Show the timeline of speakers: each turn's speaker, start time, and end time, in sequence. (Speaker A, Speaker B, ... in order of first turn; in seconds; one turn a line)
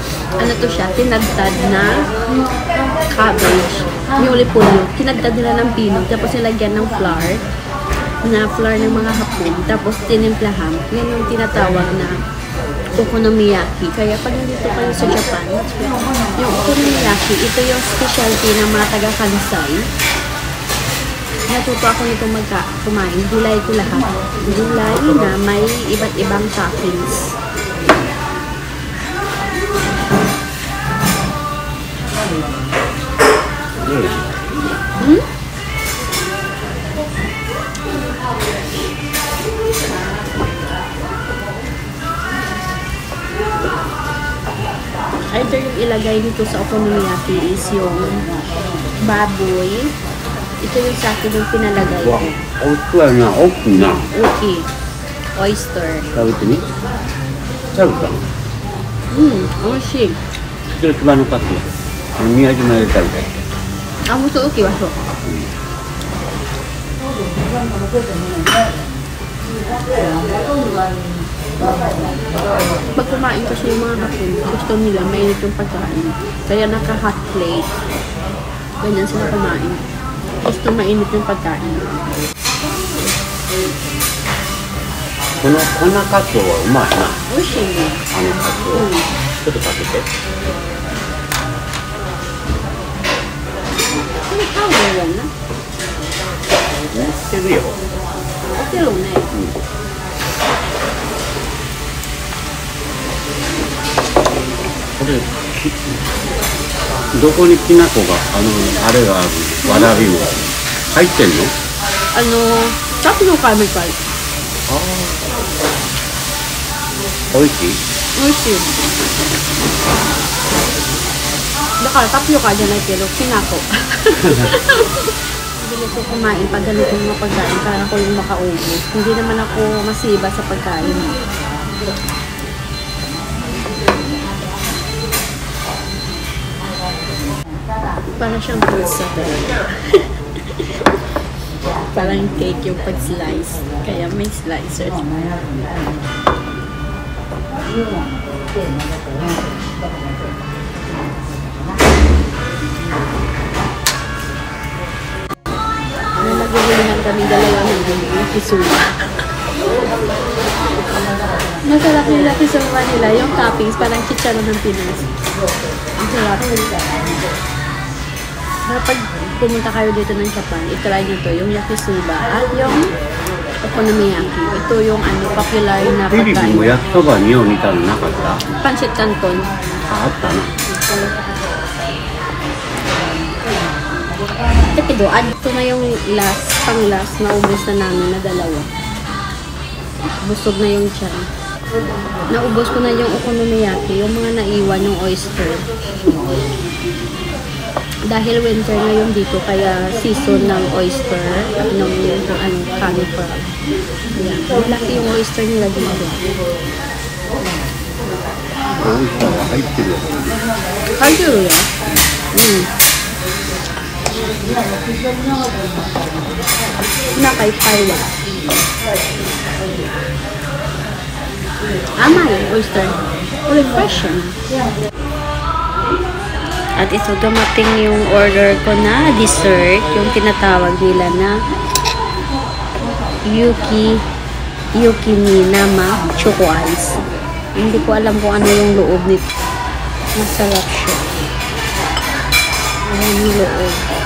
Speaker A: 0.4-2.1
Speaker A: 3.1-7.4
Speaker A: 8.2-12.2
Speaker A: 13.0-19.9
Speaker A: 21.5-27.4
Speaker B: 33.8-34.5
Speaker A: 35.0-35.2
Speaker A: 45.3-48.2
Speaker A: 49.0-49.9
Speaker A: 50.6-52.4
Speaker B: 52.0-54.1
Speaker A: 54.0-54.7
Speaker A: 55.4-56.1
Speaker B: 56.1-56.6
Speaker B: 57.7-58.3
Speaker A: 59.1-60.2
Speaker B: 60.7-61.7
Speaker B: 62.2-63.5
Speaker A: 64.1-65.0
Speaker B: 65.2-65.5
Speaker A: 73.0-77.7
Speaker A: 78.8-79.9
Speaker A: 80.4-82.0
Speaker B: 85.4-87.2
Speaker A: 87.3-88.0
Speaker B: 88.1-88.9
Speaker A: 88.7-89.1
Speaker B: 89.4-90.1
Speaker A: 94.3-95.3
Speaker B: 96.9-97.8
Speaker A: 98.5-99.3
Speaker B: 99.3-99.6
Speaker B: 105.0-106.0
Speaker B: 107.1-111.5
Speaker A: 109.7-109.9
Speaker A: 112.1-114.0
Speaker B: 114.7-115.4
Speaker B: 117.3-117.8
Speaker A: 118.2-118.7
Speaker A: 121.8-131.2
Speaker B: 124.2-124.5
Speaker A: 138.2-140.8
Speaker A: 141.9-145.0
Speaker A: 156.2-159.2
Speaker A: 161.6-165.1
Speaker A: 166.0-166.5
Speaker A: 168.7-172.9
Speaker A: 173.6-176.7
Speaker B: 176.1-178.4
Speaker A: 178.6-179.5
Speaker B: 179.9-180.5
Speaker A: 184.7-188.7
Speaker A: 190.2-191.3
Speaker A: 192.3-195.7
Speaker A: 198.1-203.4
Speaker A: 204.2-206.2
Speaker B: 208.8-210.4
Speaker A: 211.0-211.7
Speaker A: 212.3-212.7
Speaker A: 217.2-218.1
Speaker A: 222.0-224.3
Speaker A: 226.8-231.3
Speaker A: 233.2-234.0
Speaker A: 234.8-237.0
Speaker A: 237.6-239.2
Speaker A: 240.2-241.1
Speaker A: 242.9-243.9